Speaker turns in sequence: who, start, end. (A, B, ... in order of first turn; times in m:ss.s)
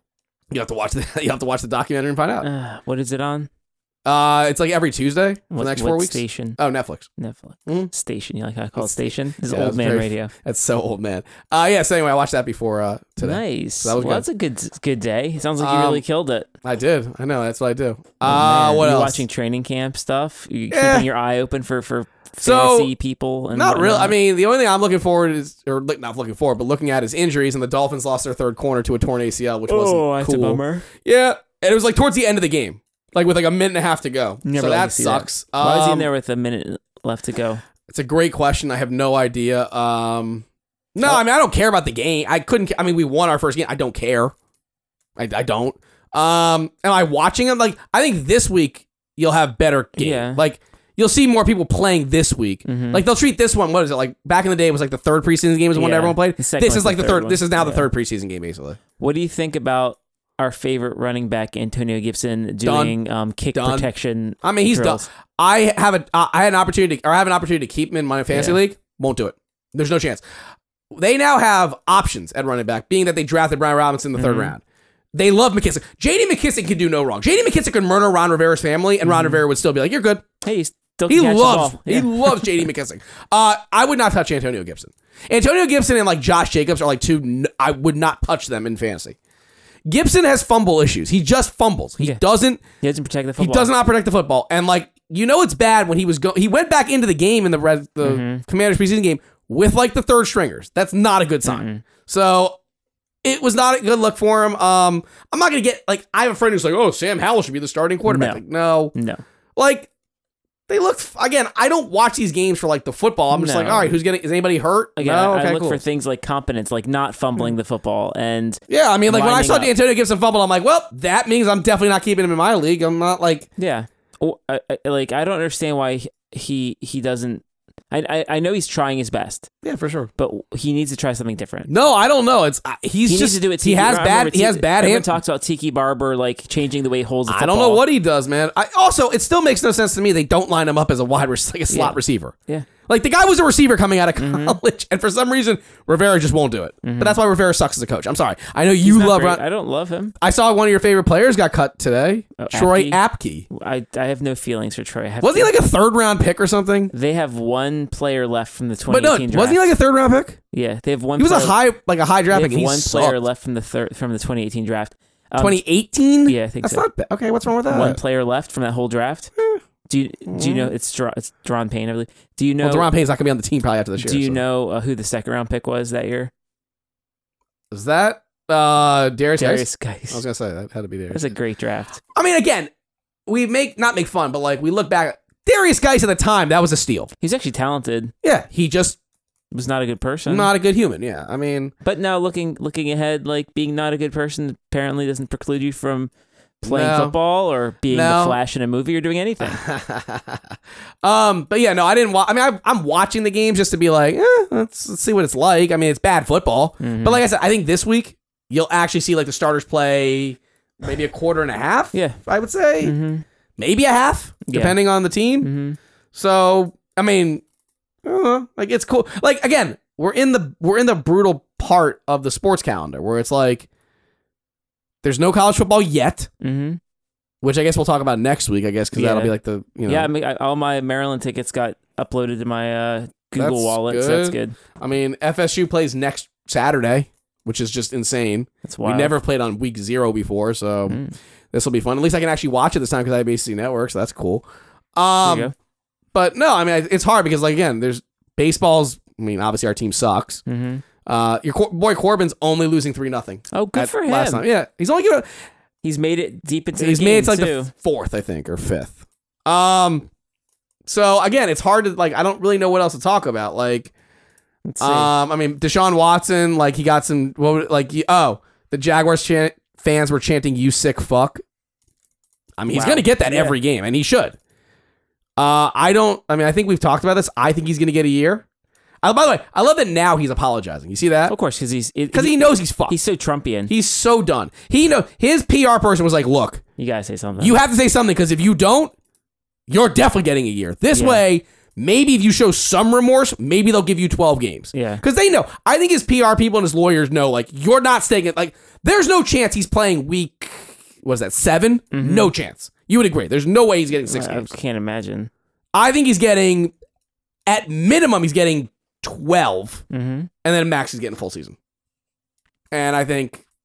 0:00.5-0:02.5 A
0:02.4-0:03.5 B
0:04.0-0:07.1 A
0:05.5-0:06.6 B
0:07.2-0:10.3 B
0:08.8-0:14.2 A
0:13.2-0:16.5 B
0:15.6-0:16.0 A
0:16.6-0:19.2 A
0:18.2-0:24.2 B
0:20.7-0:21.1 A
0:22.4-0:22.9 A
0:23.5-0:36.1 A
0:29.7-0:30.9 B
0:34.4-0:37.6 B
0:37.9-0:44.3 A
0:45.2-0:58.8 A
0:50.0-0:50.4 B
0:52.6-0:53.0 B
0:55.7-0:57.9 B
0:59.0-1:05.0 B
1:02.6-1:02.9 A
1:03.5-1:03.9 A
1:04.4-1:10.2 A
1:08.3-1:08.6 B
1:10.9-1:14.6 A
1:14.2-1:14.5 B
1:15.1-1:20.2 A
1:19.0-1:19.4 B
1:20.4-1:22.7 B
1:21.1-1:29.2 A
1:29.9-1:32.6 A
1:32.8-1:33.7 B
1:33.4-1:42.6 A
1:38.0-1:38.4 B
1:41.4-1:41.8 B
1:43.2-1:48.9 A
1:48.0-1:48.4 B
1:48.9-1:49.2 B
1:49.6-1:49.9 A
1:50.7-1:55.8 A
1:53.3-1:54.0 B
1:55.0-1:59.7 B
1:58.7-2:03.5 A
2:03.6-2:09.5 B
2:09.6-2:10.1 A
2:10.2-2:11.7 B
2:11.7-2:15.1 A
2:13.0-2:17.8 B
2:17.3-2:22.3 A
2:21.7-2:22.7 B
2:22.9-2:29.4 A
2:24.2-2:24.6 B
2:26.8-2:27.2 B
2:28.8-2:30.1 B
2:30.2-2:33.4 A
2:32.4-2:35.5 B
2:35.2-2:36.9 A
2:36.9-2:39.7 B
2:38.9-2:40.4 A
2:40.5-2:41.6 B
2:41.2-2:43.2 A
2:42.3-2:45.6 B
2:45.4-2:48.0 A
2:46.2-2:46.8 B
2:47.7-2:49.3 B
2:49.9-2:52.9 B
2:50.3-2:50.7 A
2:52.6-2:54.4 A
2:54.0-2:56.3 B
2:57.7-3:01.3 A
2:59.4-3:00.2 B
3:01.1-3:02.0 B
3:02.1-3:02.7 A
3:03.3-3:07.1 A
3:07.2-3:08.1 B
3:08.2-3:09.0 A
3:09.5-3:10.5 B
3:10.3-3:11.7 A
3:11.8-3:16.1 B
3:16.6-3:19.6 B
3:16.6-3:17.1 A
3:17.9-3:18.4 A
3:19.4-3:32.9 A
3:26.8-3:27.2 B
3:31.9-3:32.2 B
3:32.8-3:33.2 B
3:33.6-3:35.5 A
3:34.4-3:34.8 B
3:35.4-3:35.8 B
3:36.1-3:37.4 A
3:38.0-3:43.7 A
3:45.0-3:46.3 A
3:46.4-3:46.8 B
3:47.4-3:50.1 A
3:48.9-3:49.3 B
3:49.9-3:54.6 B
3:53.4-4:01.0 A
3:58.6-3:59.2 B
4:00.9-4:01.1 B
4:01.5-4:05.5 A
4:05.2-4:05.5 B
4:06.1-4:10.4 A
4:10.4-4:10.8 B
4:11.0-4:15.2 A
4:13.5-4:14.4 B
4:15.8-4:17.7 B
4:16.8-4:20.1 A
4:20.8-4:23.9 A
4:24.7-4:25.1 B
4:24.8-4:31.4 A
4:32.6-4:34.4 A
4:32.7-4:33.6 B
4:35.4-4:38.4 A
4:39.0-4:41.3 A
4:41.3-4:43.7 B
4:42.1-4:42.9 A
4:43.7-4:46.6 A
4:46.8-4:47.6 B
4:47.4-4:48.9 A
4:49.7-5:04.5 A
4:50.9-4:51.2 B
4:54.7-4:55.0 B
5:01.9-5:02.3 B
5:04.1-5:05.3 B
5:05.7-5:06.7 A
5:07.5-5:09.8 A
5:09.9-5:10.3 B
5:10.4-5:11.6 A
5:12.7-5:13.4 A